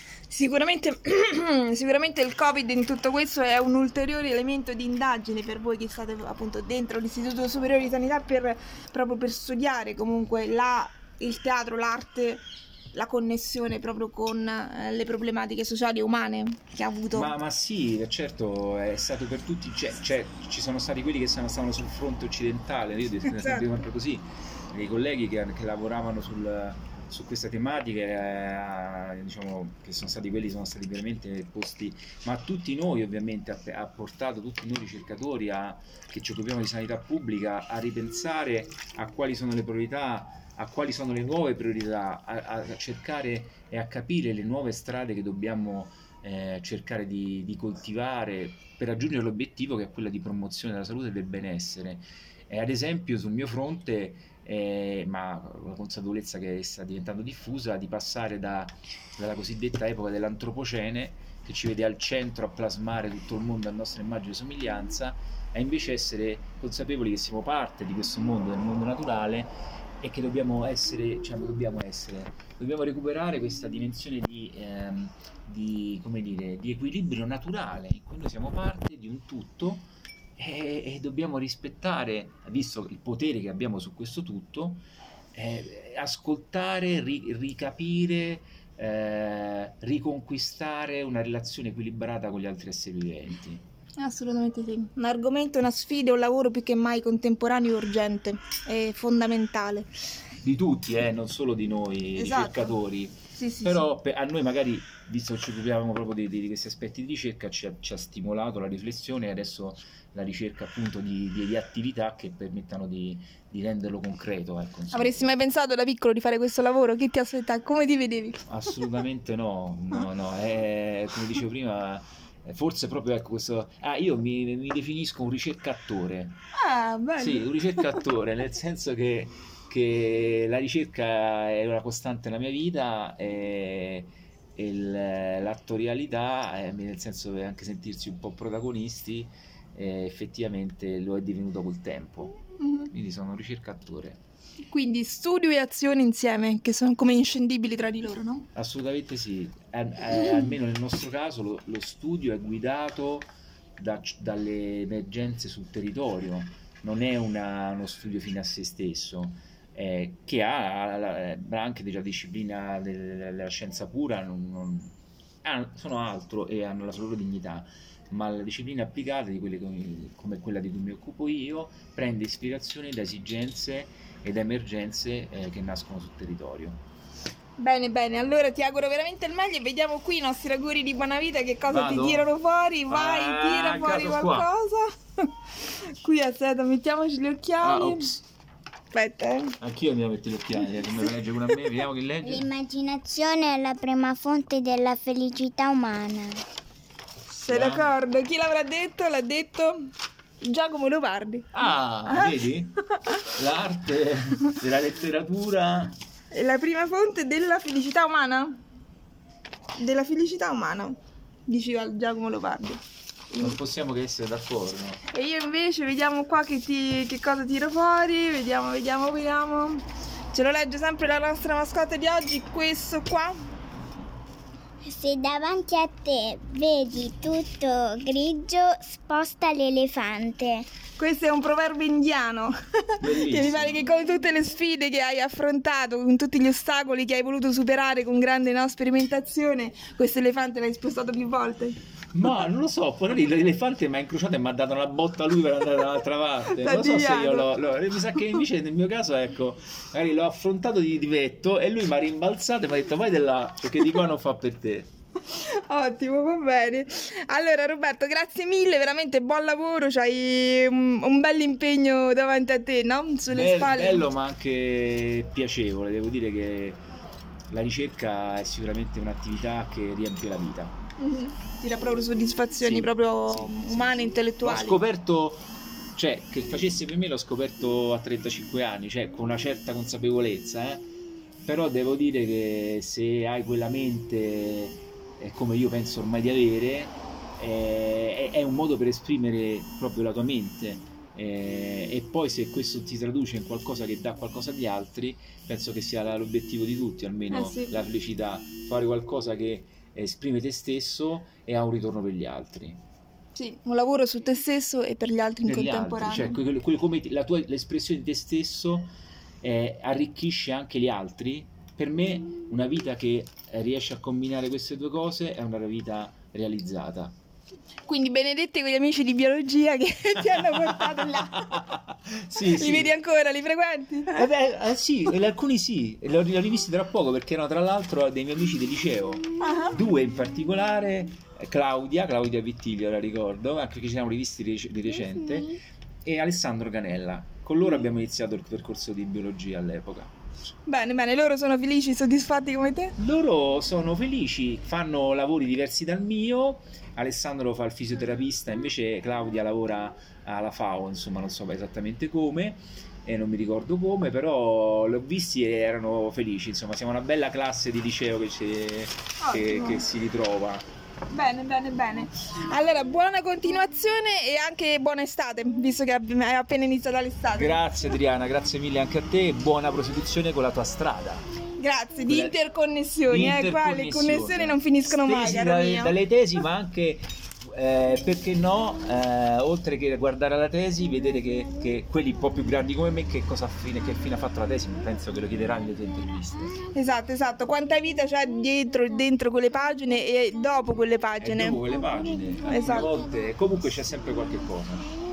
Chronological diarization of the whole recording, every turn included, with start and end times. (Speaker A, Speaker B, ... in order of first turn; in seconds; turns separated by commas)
Speaker A: 0.3-17.3, Speaker B: 17.1-84.8, Speaker A: 23.2-23.7, Speaker B: 85.3-93.6, Speaker A: 94.0-99.9, Speaker B: 100.4-115.3, Speaker A: 102.2-102.8, Speaker A: 103.3-103.9, Speaker A: 114.9-118.4, Speaker B: 118.5-126.4, Speaker A: 126.5-127.9, Speaker B: 127.2-144.2, Speaker A: 142.6-142.9, Speaker A: 144.6-148.5, Speaker B: 148.5-176.8, Speaker A: 177.6-188.1, Speaker B: 181.7-182.3, Speaker B: 182.9-184.5, Speaker B: 187.6-188.2, Speaker A: 188.9-189.6, Speaker B: 189.6-192.4, Speaker C: 192.2-196.4, Speaker A: 197.3-203.2, Speaker B: 197.5-197.9, Speaker B: 201.5-206.0, Speaker A: 206.3-208.6, Speaker A: 209.8-213.6, Speaker B: 213.4-215.0, Speaker A: 215.1-223.4, Speaker C: 224.8-230.7, Speaker A: 231.0-241.8, Speaker B: 233.0-233.8, Speaker B: 242.1-254.9, Speaker A: 246.5-247.5, Speaker A: 255.3-264.1, Speaker B: 263.3-266.8, Speaker B: 267.5-270.8, Speaker A: 271.0-274.8, Speaker B: 272.6-280.9, Speaker B: 281.4-302.8, Speaker A: 297.3-297.8, Speaker A: 303.4-306.4, Speaker B: 305.4-317.1, Speaker A: 317.9-321.6, Speaker B: 320.7-322.9, Speaker A: 322.4-324.3, Speaker B: 324.1-340.1, Speaker A: 329.4-329.8, Speaker A: 340.7-342.9, Speaker B: 343.0-360.6, Speaker A: 359.2-359.9, Speaker A: 361.1-367.6, Speaker B: 367.3-371.2, Speaker A: 371.6-375.9, Speaker B: 372.1-372.4, Speaker B: 373.1-386.6, Speaker A: 386.7-391.6, Speaker B: 391.2-394.9, Speaker C: 392.3-393.0, Speaker A: 392.5-392.9